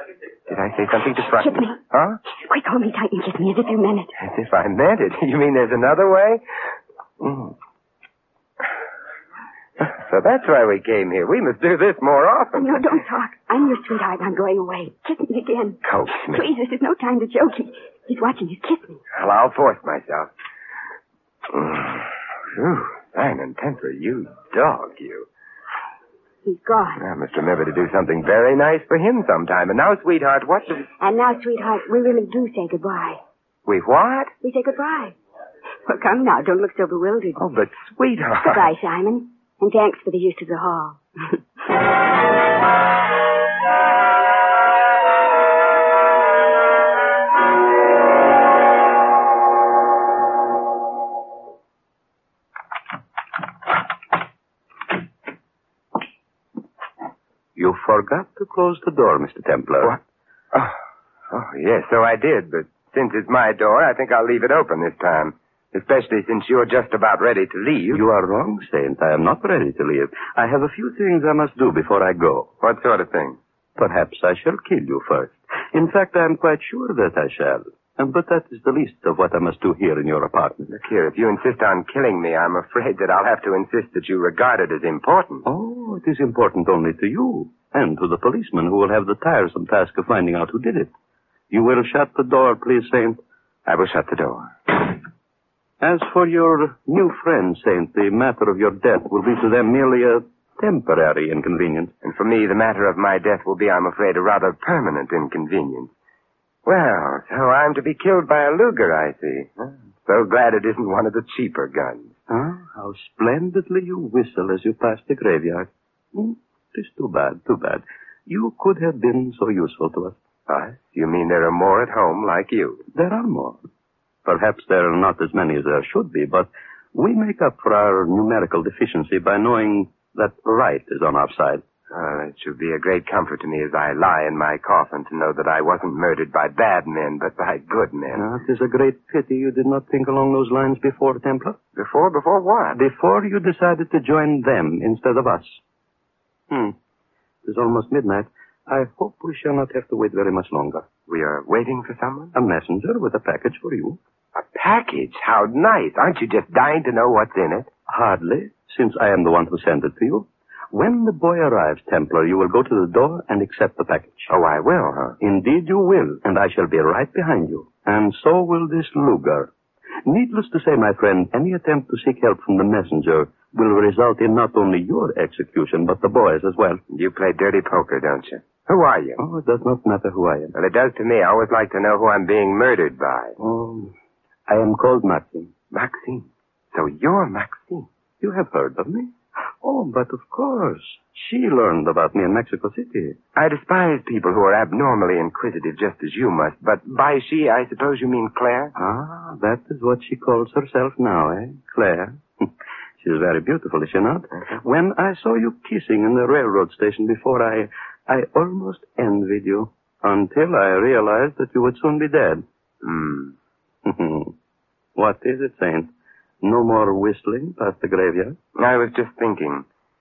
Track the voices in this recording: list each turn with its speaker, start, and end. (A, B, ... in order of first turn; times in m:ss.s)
0:00.5-0:02.2 A
0:01.4-0:01.8 B
0:02.3-0:04.1 B
0:04.2-0:06.4 A
0:07.2-0:07.6 A
0:09.8-0:12.8 A
0:12.6-0:19.0 B
0:15.8-0:16.4 A
0:19.1-0:20.3 A
0:21.5-0:25.2 A
0:26.4-0:27.0 B
0:27.0-0:30.8 A
0:31.0-0:33.2 B
0:33.6-0:34.3 A
0:34.4-0:35.2 B
0:35.8-0:37.4 B
0:37.4-0:38.7 A
0:38.4-0:41.4 B
0:57.6-1:00.0 C
1:01.3-1:08.0 A
1:07.9-1:12.5 C
1:12.6-1:13.4 A
1:13.8-1:20.7 C
1:20.7-1:25.4 A
1:25.4-1:30.9 C
1:31.5-1:33.2 C
1:33.6-1:34.5 A
1:35.8-1:41.9 C
1:42.0-1:45.9 A
1:46.6-1:52.1 A
1:52.3-2:00.2 C
2:00.5-2:02.8 A
2:02.9-2:03.6 C
2:04.2-2:11.6 C
2:11.9-2:18.2 A
2:18.1-2:21.6 C
2:21.8-2:22.8 A
2:22.7-2:25.6 C
2:26.5-2:26.8 C
2:27.4-2:30.8 C
2:31.1-2:32.3 A
2:32.3-2:34.0 C
2:34.4-2:37.7 A
2:37.9-2:44.3 C
2:44.3-2:45.2 A
2:45.2-2:49.5 C
2:50.0-2:56.8 C
2:56.9-2:59.2 A
2:59.2-3:00.5 C
3:00.5-3:03.4 A
3:03.4-3:03.9 C
3:04.5-3:05.5 C
3:05.7-3:07.9 A
3:08.2-3:13.2 C
3:13.3-3:18.7 A
3:18.8-3:32.4 C
3:32.8-3:33.3 A
3:33.8-3:34.3 C
3:35.0-3:35.9 C
3:36.4-3:38.4 C
3:38.6-3:39.6 A